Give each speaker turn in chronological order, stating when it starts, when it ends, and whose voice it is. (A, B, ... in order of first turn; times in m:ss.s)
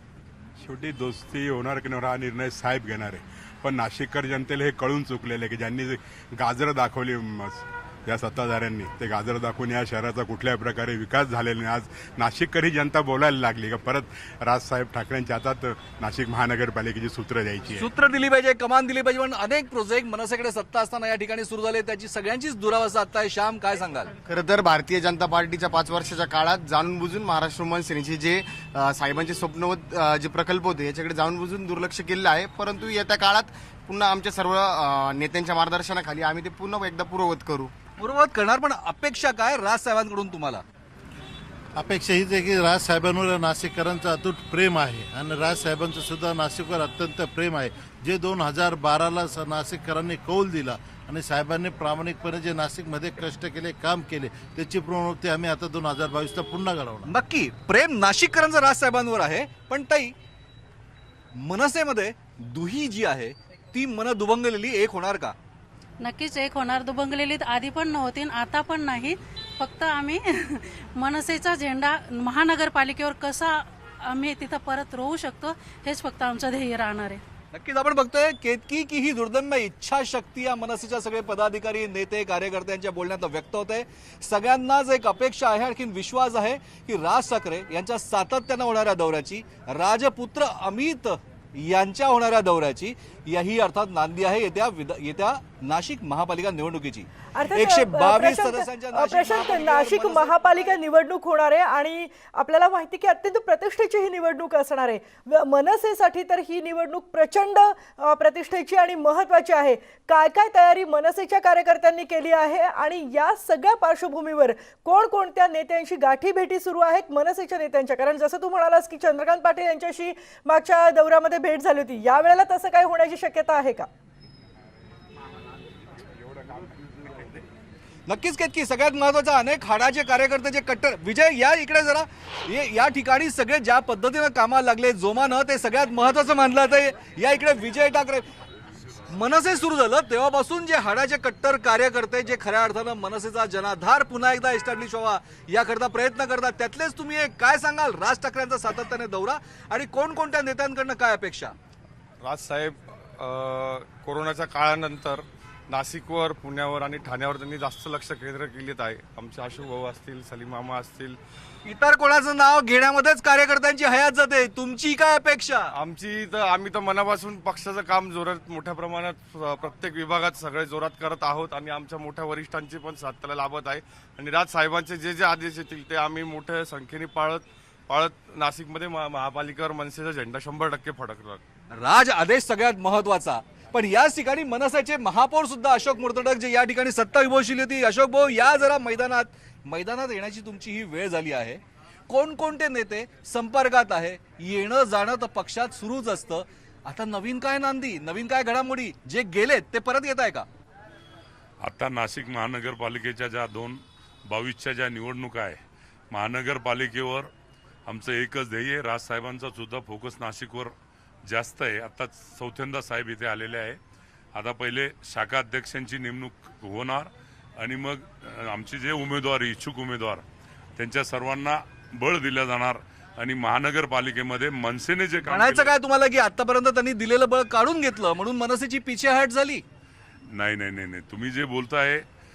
0:00.6-0:17.9 A
0:17.7-0:24.1 B
0:24.2-0:37.7 C
0:38.0-0:40.6 B
0:41.8-0:57.1 D
0:57.0-1:00.1 B
1:01.3-1:05.4 B
1:06.0-1:17.2 E
1:17.5-1:40.7 B
1:37.3-2:03.9 F
2:08.1-2:18.2 B
2:19.1-2:31.5 B
2:32.2-2:41.2 G
2:41.6-2:45.7 B
2:45.7-3:01.4 G
3:01.7-3:20.5 B
3:21.6-3:25.6 H
3:26.1-3:27.3 H
3:27.8-3:30.7 H
3:31.2-3:33.8 H
3:34.3-3:40.2 H
3:40.8-3:45.7 H
3:45.2-3:49.6 B
3:50.3-3:52.0 H